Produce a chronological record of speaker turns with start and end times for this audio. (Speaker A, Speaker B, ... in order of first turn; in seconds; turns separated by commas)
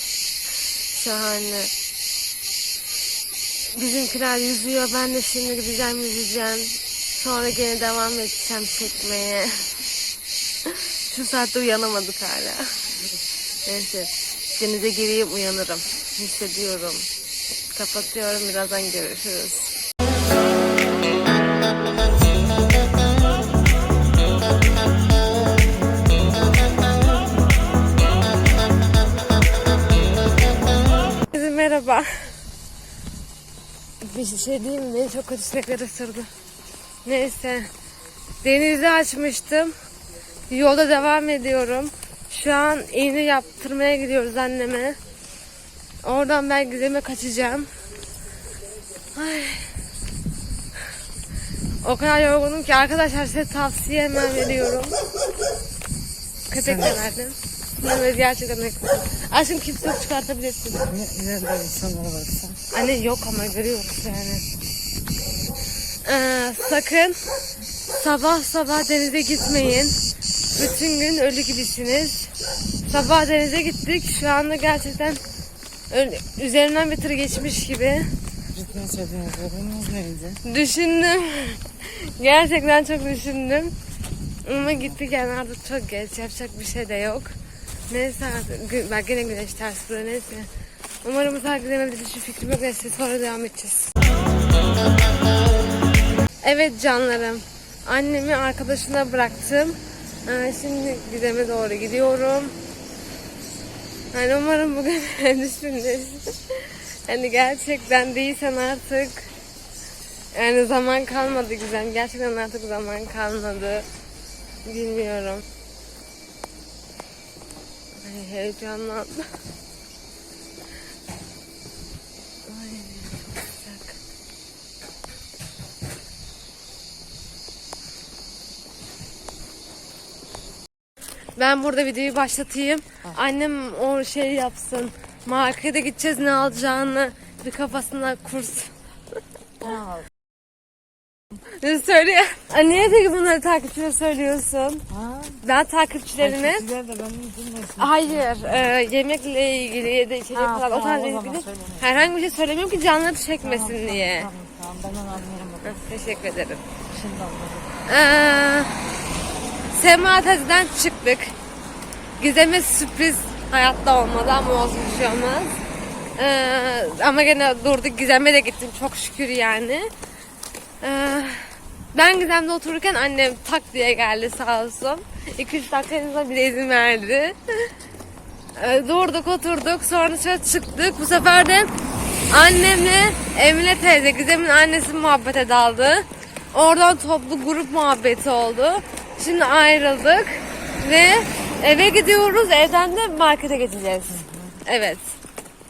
Speaker A: 0.9-1.7, Speaker A: 3.7-9.7, Speaker A: 11.1-12.9, Speaker A: 13.7-17.1, Speaker A: 17.7-19.7, Speaker A: 31.3-32.1, Speaker A: 34.0-36.3, Speaker A: 37.0-37.7, Speaker A: 38.4-39.7, Speaker A: 40.5-45.0, Speaker A: 46.0-47.7, Speaker A: 49.1-49.7, Speaker A: 51.8-54.9, Speaker A: 56.5-60.9, Speaker B: 56.6-57.0, Speaker B: 60.9-62.5, Speaker A: 62.7-64.4, Speaker A: 66.0-67.2, Speaker A: 68.0-69.9, Speaker A: 70.5-72.3, Speaker A: 72.8-75.2, Speaker A: 75.9-78.1, Speaker B: 78.5-80.4, Speaker A: 80.4-83.7, Speaker A: 84.4-87.3, Speaker A: 87.9-90.5, Speaker A: 91.0-93.9, Speaker A: 96.4-102.5, Speaker A: 104.1-109.3, Speaker A: 110.3-113.8, Speaker A: 114.7-115.4, Speaker A: 118.0-119.2, Speaker A: 122.5-124.0, Speaker A: 131.4-138.7, Speaker B: 139.6-140.1, Speaker A: 141.6-144.8, Speaker B: 144.9-145.4, Speaker A: 145.4-146.7, Speaker B: 146.2-148.3, Speaker A: 147.8-154.3, Speaker B: 150.3-152.0, Speaker B: 153.4-155.8, Speaker A: 155.6-156.6, Speaker B: 156.9-157.7, Speaker A: 157.9-158.7, Speaker A: 159.7-161.3, Speaker A: 162.2-165.6, Speaker A: 166.2-169.8, Speaker A: 170.8-177.3, Speaker A: 178.6-181.7, Speaker A: 182.3-195.0, Speaker B: 194.1-194.5